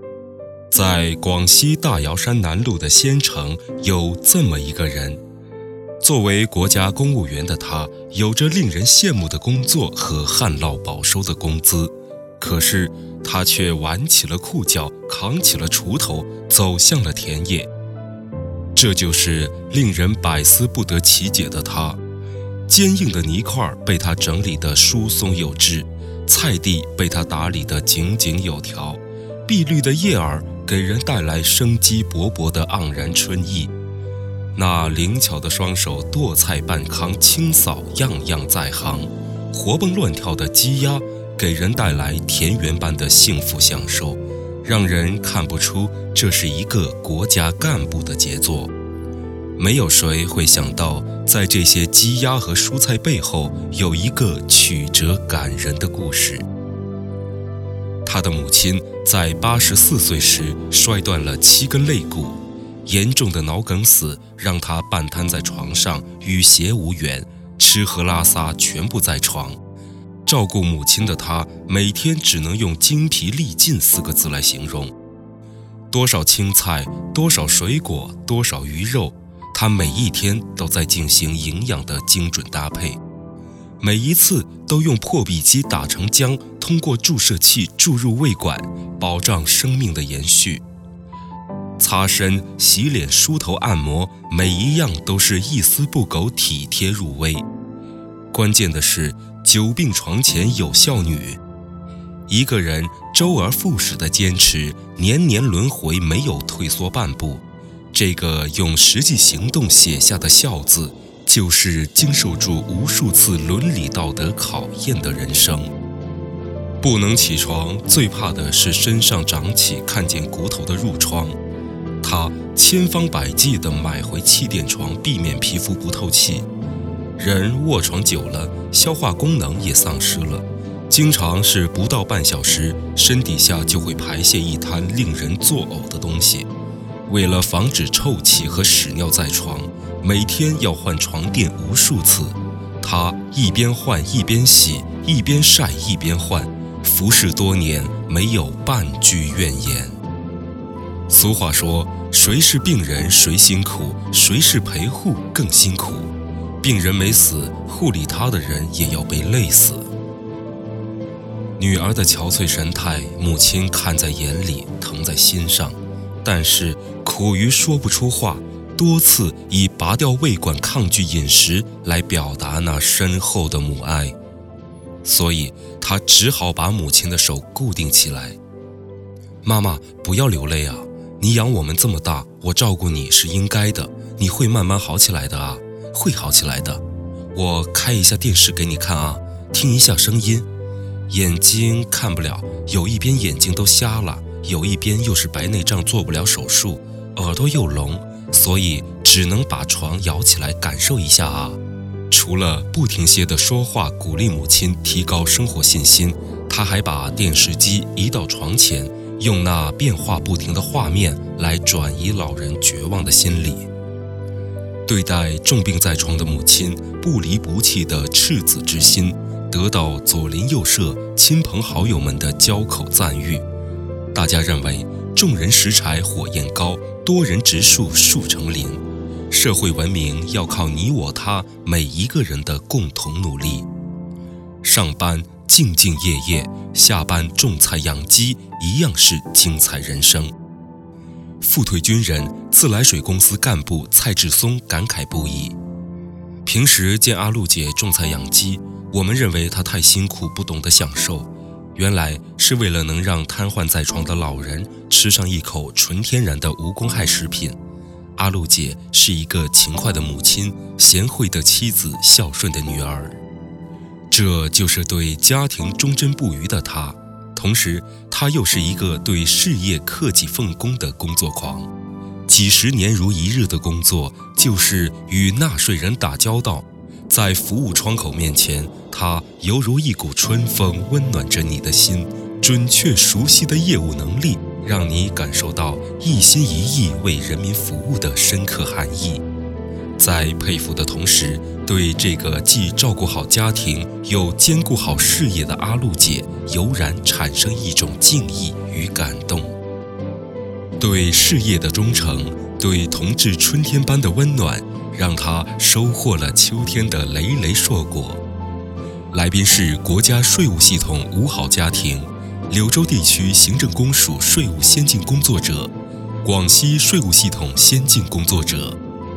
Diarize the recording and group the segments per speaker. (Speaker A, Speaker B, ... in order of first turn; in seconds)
Speaker A: 0.7-5.2, 6.0-17.7, 18.7-22.0, 22.7-33.7, 34.5-48.7, 49.6-56.5, 58.0-69.6, 70.2-74.9, 75.9-83.0, 83.8-90.6, 91.8-97.4, 98.3-101.4, 102.3-107.4, 107.9-115.7, 116.8-121.4, 122.0-126.5, 127.2-136.5, 137.1-150.0, 151.1-159.9, 161.6-174.2, 175.0-178.4, 179.4-186.8, 187.3-190.5, 191.1-201.6, 202.1-213.7, 214.9-223.4, 224.1-233.7, 234.6-240.3, 241.4-245.5, 246.4-257.6, 258.1-263.2, 264.1-271.7, 272.3-289.2, 290.0-299.5, 300.8-308.2, 309.1-315.7, 316.2-318.8